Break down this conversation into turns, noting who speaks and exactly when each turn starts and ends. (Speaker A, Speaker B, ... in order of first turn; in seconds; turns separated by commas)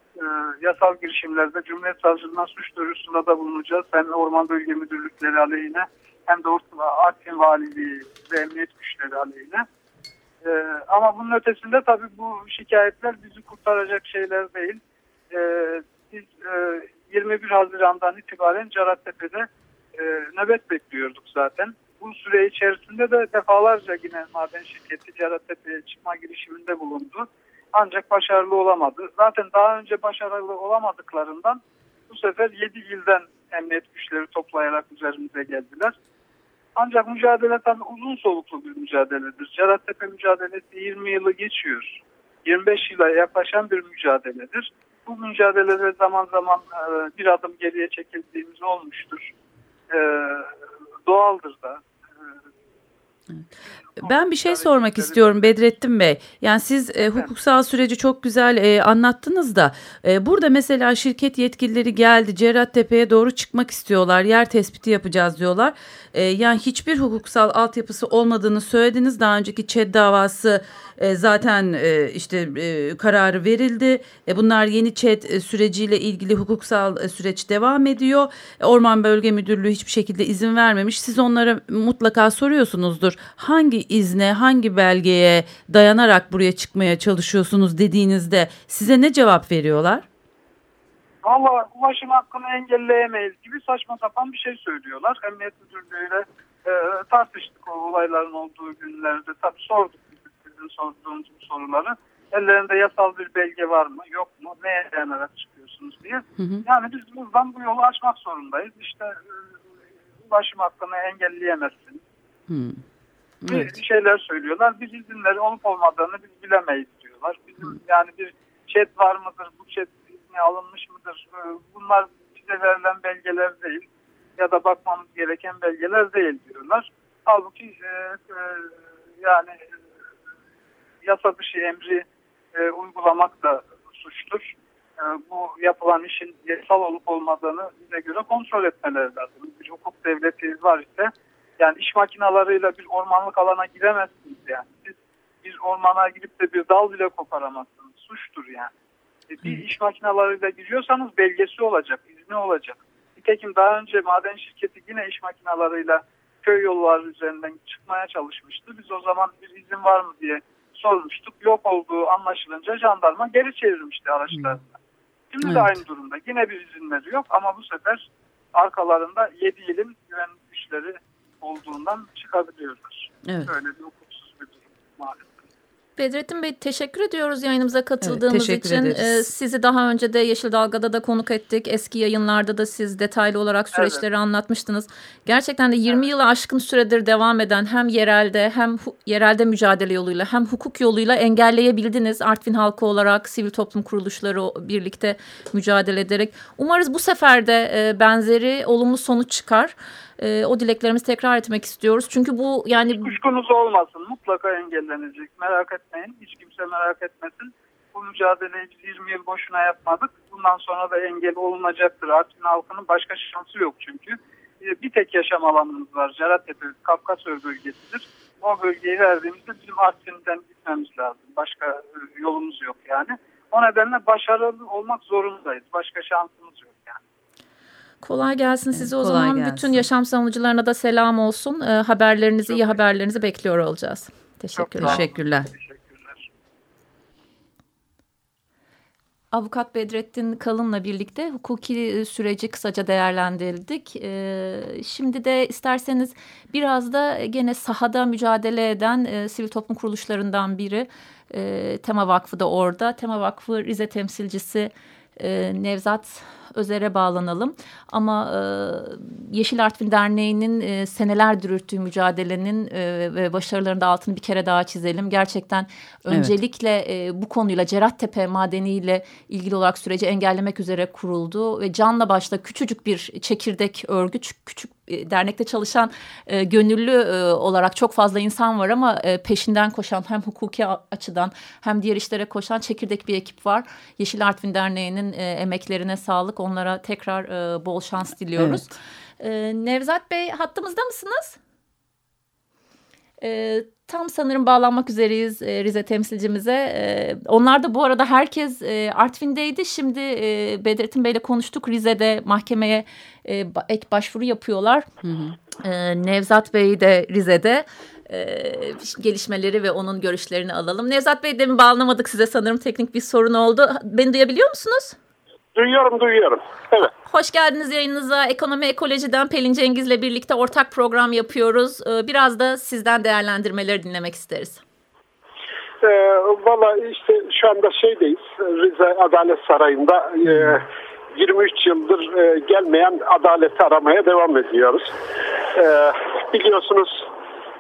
Speaker A: 0.2-9.7, Speaker A: 10.4-14.8, Speaker A: 15.3-36.0, Speaker A: 36.8-49.3, Speaker A: 49.9-50.5, Speaker A: 51.1-51.8, Speaker A: 54.0-55.6, Speaker B: 54.0-90.0, Speaker A: 57.0-57.3, Speaker A: 91.2-109.2, Speaker B: 106.4-106.7, Speaker A: 110.2-112.0, Speaker B: 112.5-112.8, Speaker B: 113.4-113.8, Speaker A: 113.5-123.9, Speaker A: 124.4-128.7, Speaker A: 129.2-129.7, Speaker A: 131.0-148.7, Speaker A: 149.3-164.7, Speaker B: 164.3-164.6, Speaker A: 165.3-175.4, Speaker B: 165.4-165.7, Speaker C: 176.0-203.2, Speaker B: 178.0-179.2, Speaker A: 183.8-184.0, Speaker A: 203.0-227.0, Speaker C: 228.0-235.0, Speaker B: 228.8-229.9, Speaker A: 232.5-232.8, Speaker A: 234.6-236.3, Speaker B: 234.8-235.5, Speaker C: 239.3-288.7, Speaker B: 288.4-288.6, Speaker C: 289.2-291.4, Speaker C: 293.2-304.9, Speaker B: 305.0-305.4, Speaker C: 305.6-315.0, Speaker D: 315.6-316.9, Speaker C: 317.1-324.6, Speaker D: 325.8-334.9, Speaker D: 335.5-337.1